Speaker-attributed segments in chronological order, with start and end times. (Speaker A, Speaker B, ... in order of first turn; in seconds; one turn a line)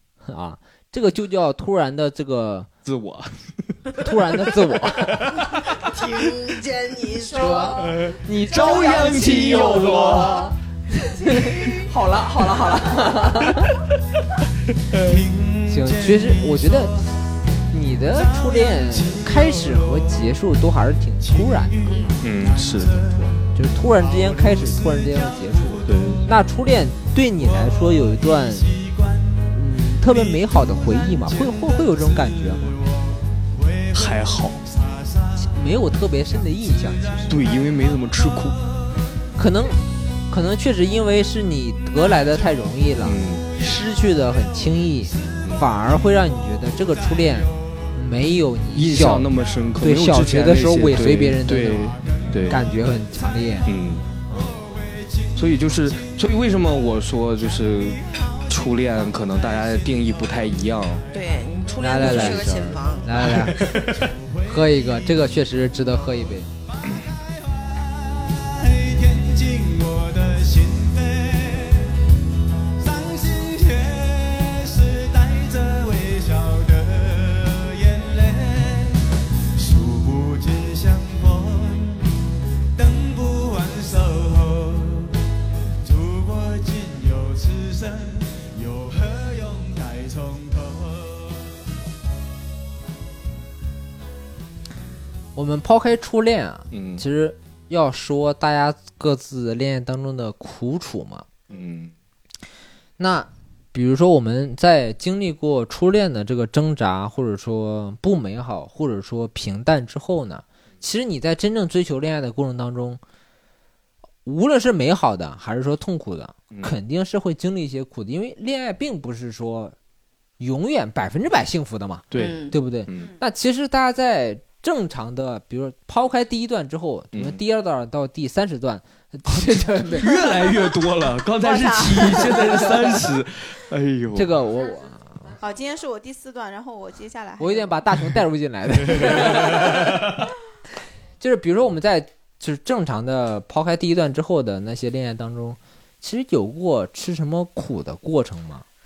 Speaker A: 0.2-2.7
Speaker B: 2.9-3.7
Speaker A: 4.0-5.3
Speaker B: 5.0-5.6
Speaker C: 5.5-7.8
Speaker D: 7.2-11.9
Speaker A: 7.4-7.7
Speaker B: 7.7-10.5
Speaker A: 8.2-10.2
Speaker C: 8.5-10.5
Speaker A: 11.3-13.8
Speaker B: 14.9-15.2
Speaker E: 15.1-17.1
Speaker A: 15.7-17.0
Speaker A: 17.7-21.8
Speaker E: 18.1-20.1
Speaker E: 21.2-26.2
Speaker C: 21.8-22.2
Speaker B: 22.2-23.3
Speaker A: 23.6-28.8
Speaker B: 25.9-26.2
Speaker E: 27.5-29.5
Speaker A: 29.5-32.8
Speaker E: 30.1-35.3
Speaker B: 33.9-34.6
Speaker A: 35.4-37.4
Speaker E: 36.7-37.3
Speaker B: 37.3-38.6
Speaker A: 39.4-49.3
Speaker B: 43.0-43.5
Speaker B: 48.7-52.6
Speaker A: 49.8-53.7
Speaker E: 52.0-52.4
Speaker B: 53.7-54.1
Speaker A: 54.3-54.6
Speaker E: 54.4-56.1
Speaker B: 55.4-61.1
Speaker E: 57.5-60.3
Speaker E: 61.0-62.0
Speaker C: 61.1-63.4
Speaker A: 61.8-63.7
Speaker B: 62.0-62.4
Speaker B: 63.2-64.1
Speaker E: 64.0-65.1
Speaker A: 64.5-66.5
Speaker E: 66.9-72.0
Speaker E: 72.8-79.0
Speaker E: 79.6-82.1
Speaker E: 82.8-85.1
Speaker E: 85.8-91.4
Speaker A: 95.3-101.3
Speaker B: 96.7-97.0
Speaker B: 101.5-101.9
Speaker A: 103.0-113.0
Speaker A: 114.3-119.8
Speaker A: 120.4-130.2
Speaker B: 122.1-123.1
Speaker C: 122.2-122.5
Speaker B: 127.1-127.4
Speaker B: 129.3-134.4
Speaker D: 131.4-133.0
Speaker A: 134.2-135.4
Speaker D: 135.4-137.8
Speaker A: 137.4-139.9
Speaker B: 138.9-140.2
Speaker D: 139.1-139.6
Speaker A: 141.2-148.7